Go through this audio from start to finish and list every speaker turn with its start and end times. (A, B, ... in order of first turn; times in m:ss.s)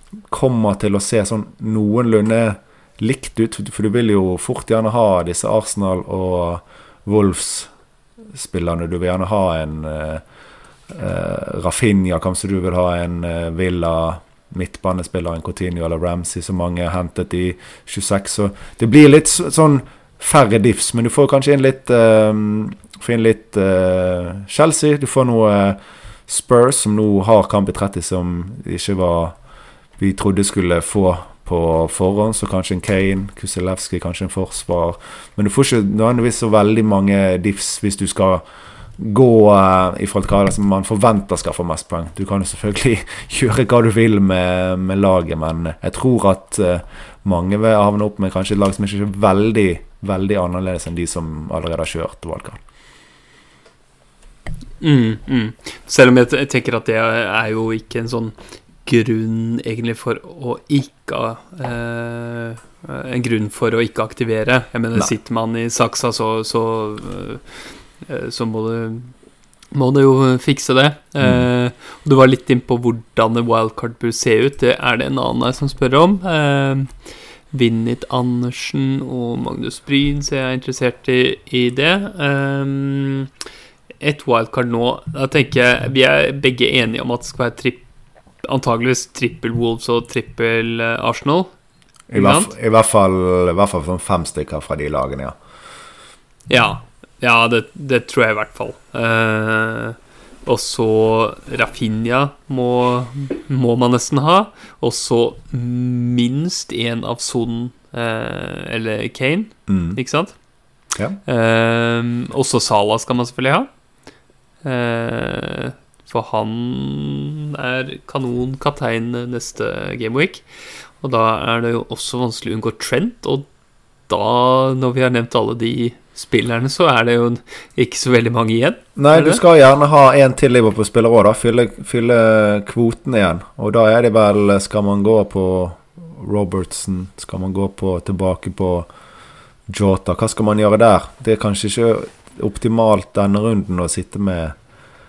0:00.3-0:07.7 A
0:08.3-0:10.2 A
0:10.9-0:29.4 A
0:30.0-0:38.4 A
0:39.0-0:52.6 A
0:54.8-1:07.4 B
1:08.0-1:09.1 B
1:09.7-1:16.9 B
1:11.2-1:11.5 A
1:17.5-1:23.3 B
1:24.0-1:27.8 B
1:28.4-1:31.5 B
1:32.1-1:35.4 A
1:32.1-1:32.5 B
1:36.5-1:50.4 B
1:49.7-1:50.0 A
1:51.3-1:53.7 B
1:54.6-2:00.4 B
2:01.0-2:03.5 B
2:04.1-2:09.4 B
2:09.0-2:18.9 A
2:19.7-2:24.6 A